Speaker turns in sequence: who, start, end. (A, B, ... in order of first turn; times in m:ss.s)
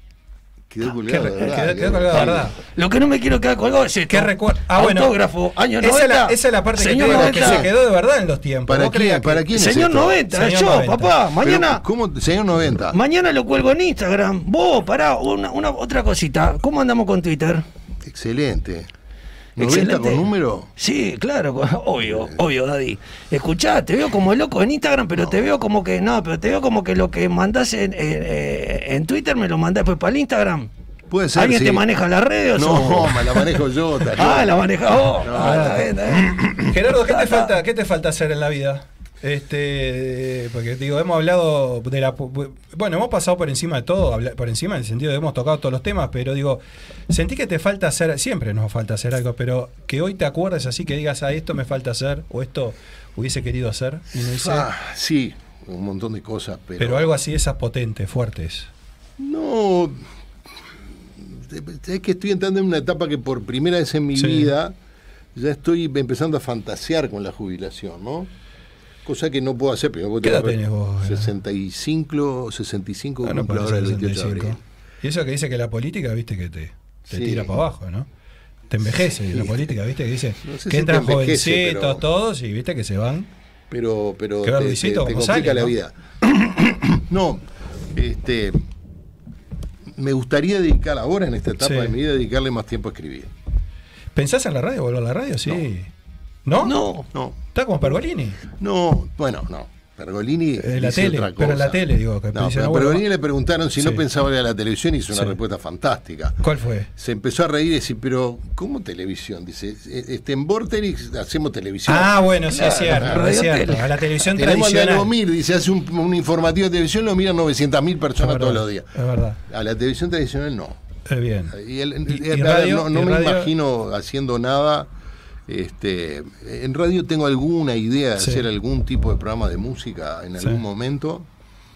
0:00.7-0:02.5 A
0:00.9-0:02.6 B
0:02.1-0:07.7 C
0:04.1-0:05.1 B
0:05.8-0:09.5 B
0:07.0-0:07.7 A
0:08.7-0:10.2 A
0:09.5-0:11.8 C
0:10.3-0:11.2 B
0:11.4-0:13.0 A
0:12.9-0:17.6 C
0:18.0-0:18.9 A
0:19.6-0:20.7 A
0:19.6-0:30.7 C
0:22.0-0:22.4 A
0:31.1-0:31.8 A
0:31.4-0:33.6 C
0:32.6-0:34.6 A
0:34.1-0:37.5 C
0:35.2-0:36.0 A
0:35.3-0:35.9 B
0:36.6-0:54.7 B
0:54.1-0:57.1 A
0:56.8-0:58.7 B
0:59.2-1:00.1 A
1:01.2-1:04.8 A
1:04.2-1:04.5 B
1:05.4-1:08.3 A
1:09.0-1:14.6 A
1:10.2-1:11.3 B
1:13.2-1:18.1 B
1:17.1-1:17.6 A
1:18.7-1:23.3 B
1:18.8-1:19.7 A
1:20.4-1:22.0 A
1:23.7-1:28.6 A
1:24.4-1:25.7 B
1:30.0-1:33.3 A
1:31.6-1:32.0 B
1:34.1-1:35.9 B
1:36.4-1:36.8 B
1:36.6-1:37.1 C
1:37.1-1:37.4 A
1:37.5-1:38.4 B
1:38.6-1:46.4 A
1:40.6-1:43.0 B
1:43.8-1:44.0 B
1:46.4-1:46.9 B
1:46.9-1:52.2 A
1:51.9-1:55.1 B
1:52.5-1:53.9 C
1:53.0-1:53.2 A
1:54.2-1:58.9 A
1:58.2-1:59.4 B
1:59.5-2:00.8 A
2:01.1-2:01.6 B
2:01.5-2:04.9 A
2:02.1-2:03.5 B
2:05.5-2:11.3 A
2:08.2-2:08.4 B